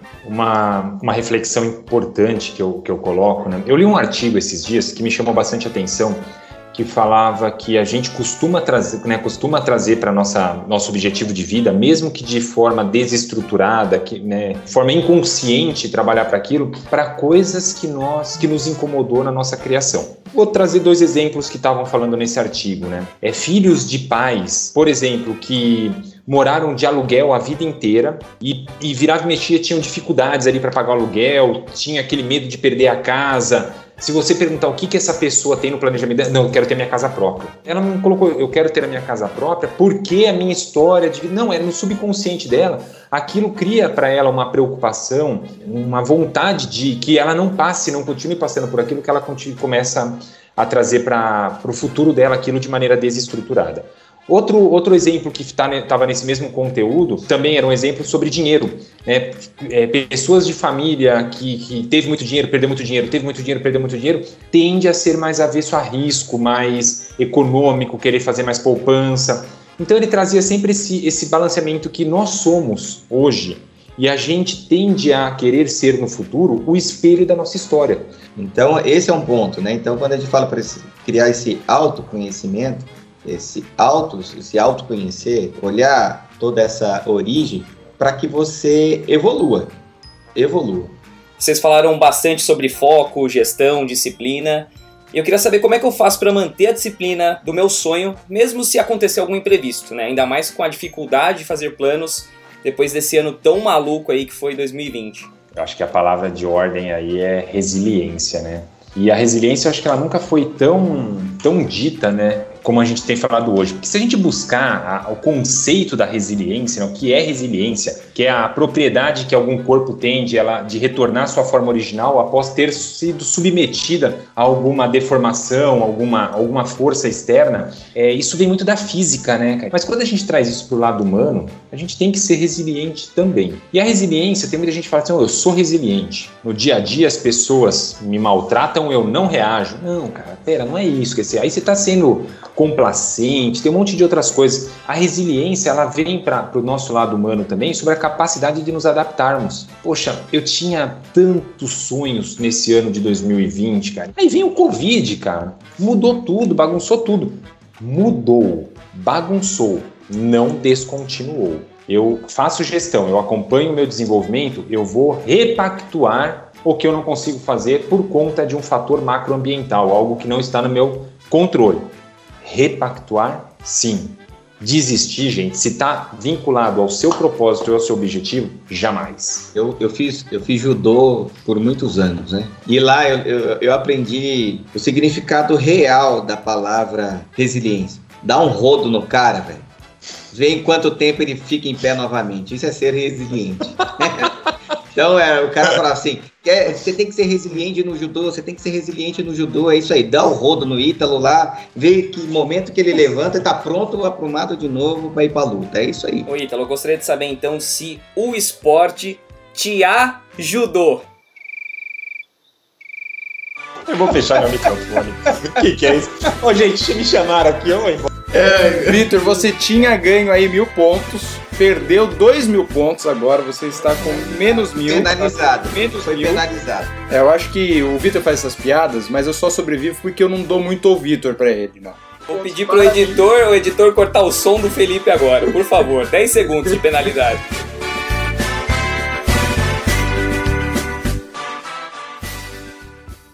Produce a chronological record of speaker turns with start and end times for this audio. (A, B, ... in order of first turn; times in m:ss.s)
0:00.2-1:18.1 A
1:18.4-1:29.7 B
1:30.4-1:31.0 B
1:31.4-1:45.3 C
1:45.5-2:59.5 A
2:59.5-3:09.7 B
3:10.3-3:14.4 B
3:14.9-3:26.3 B
3:26.3-3:31.1 C
3:33.9-3:38.1 A
3:38.3-3:39.1 B
3:38.7-3:46.4 D
3:44.8-3:46.9 B
3:47.1-3:53.3 D
3:52.3-3:57.4 C